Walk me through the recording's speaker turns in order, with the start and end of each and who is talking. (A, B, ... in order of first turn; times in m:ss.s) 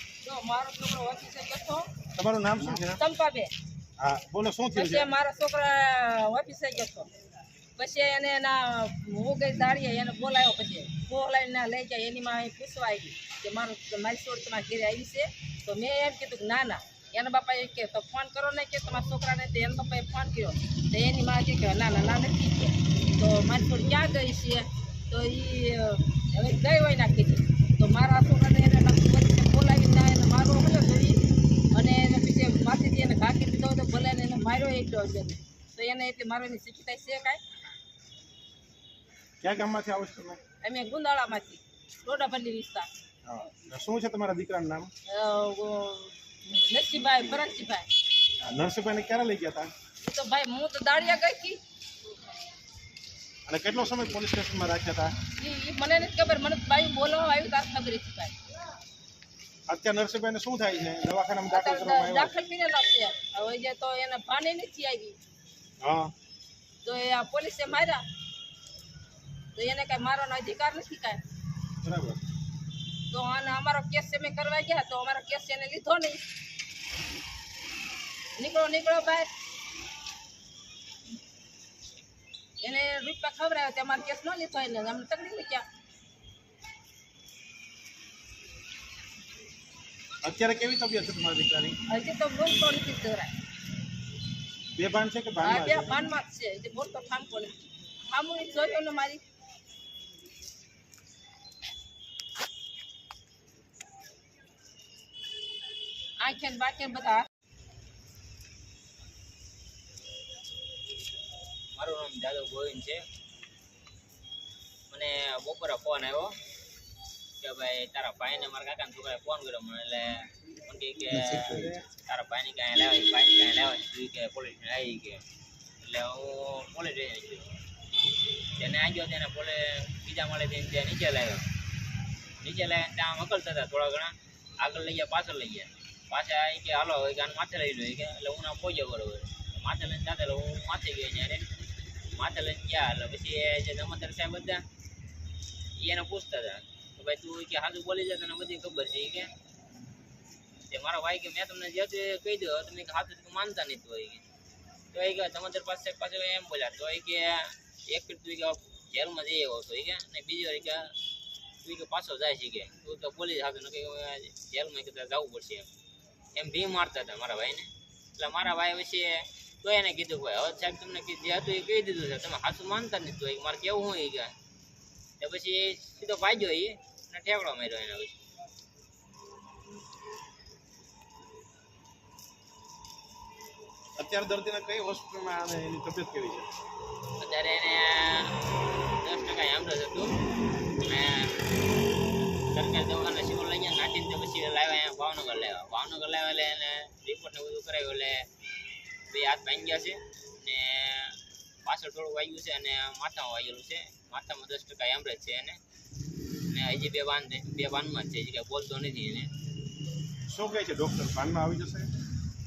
0:00.2-0:01.9 A
0:02.2-0:03.0 B
0:02.9-0:03.5 A
0:04.0-0:05.1 B
0:04.7-0:07.1 A
0:07.8-0:31.2 A
0:31.7-0:37.4 A
0:39.4-0:40.4 B
0:40.6-0:42.9 A
0:43.3-0:44.9 B
0:45.1-0:47.9 A
0:48.4-0:49.7 B
0:50.0-0:51.6 A
0:53.5-0:55.2 B
0:55.4-0:58.4 A
0:59.7-1:02.3 B
1:01.5-1:05.2 A
1:05.8-1:06.1 B
1:06.8-1:08.0 A
1:09.6-1:11.2 A
1:11.8-1:12.2 B
1:13.1-1:16.2 A
1:18.4-1:19.3 A
1:22.6-1:25.6 A
1:30.2-1:31.8 B
1:31.9-1:33.3 A
1:34.8-1:35.9 B
1:35.4-1:37.5 A
1:38.1-1:39.2 A
1:46.2-1:47.2 A
1:51.8-1:53.0 C
1:54.9-1:56.4 C
1:57.4-2:05.2 C
2:01.2-2:01.8 B
2:05.8-2:07.5 C
2:08.6-2:11.4 C
2:12.4-2:21.5 C
2:22.2-2:24.6 C
2:25.8-2:29.3 C
2:30.7-2:34.2 C
2:34.9-2:40.9 C
2:41.6-2:45.7 C
2:46.4-2:54.3 C
2:55.2-2:58.2 C
3:04.0-3:06.5 B
3:07.2-3:08.3 C
3:09.0-3:10.1 C
3:10.9-3:11.3 C
3:12.5-3:18.2 C
3:19.1-3:25.6 C
3:26.5-3:29.3 C
3:30.3-3:31.9 B